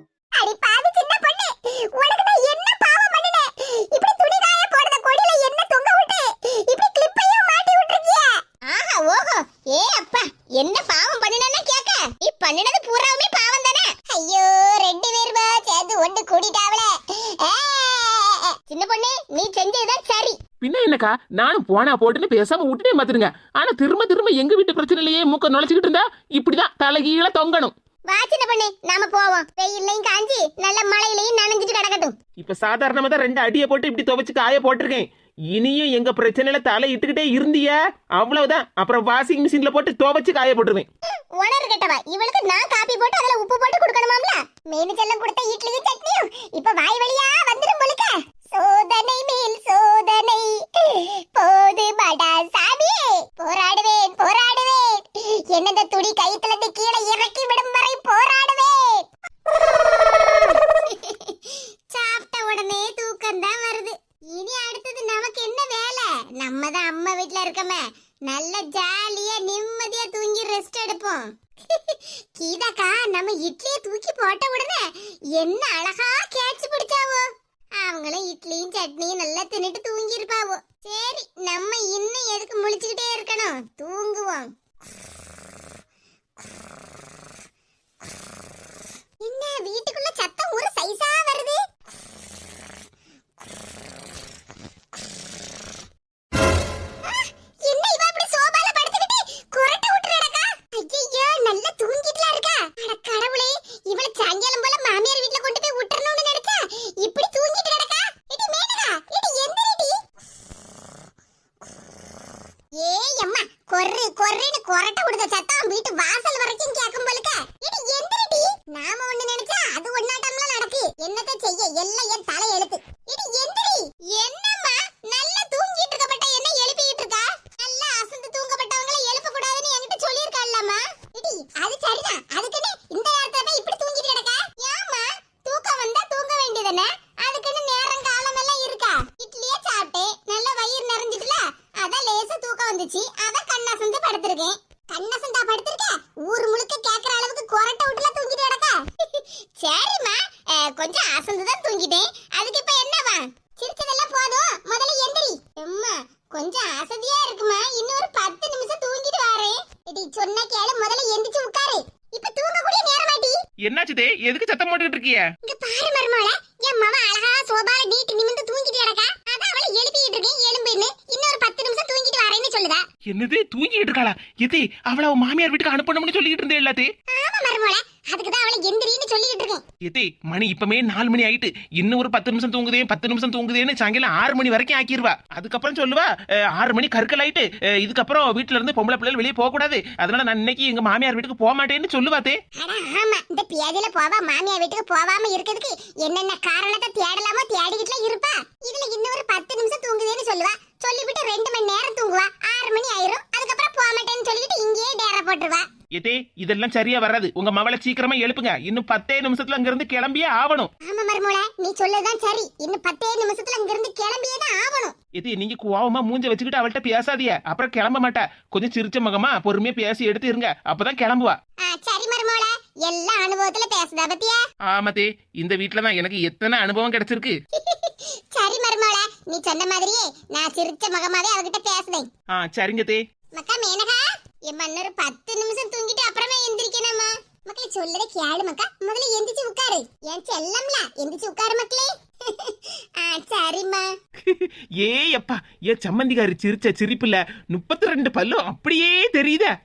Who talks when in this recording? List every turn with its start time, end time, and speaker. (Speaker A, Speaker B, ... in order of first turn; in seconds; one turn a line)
Speaker A: 0.4-20.4
Speaker B: 20.6-27.7
Speaker A: 28.1-32.2
Speaker B: 32.4-40.9
Speaker A: 41.4-84.5
Speaker A: 89.2-91.6
Speaker A: 97.0-110.0
Speaker A: 112.8-163.4
Speaker B: 163.6-165.3
Speaker A: 165.4-172.8
Speaker B: 173.1-176.9
Speaker A: 177.1-179.6
Speaker B: 179.8-192.4
Speaker A: 192.6-205.7
Speaker B: 206.0-210.7
Speaker A: 210.8-214.9
Speaker B: 215.2-221.4
Speaker A: 221.6-224.4
Speaker B: 224.7-227.4
Speaker A: 227.6-232.1
Speaker B: 232.3-233.0
Speaker A: 233.3-243.9
Speaker B: 244.2-249.5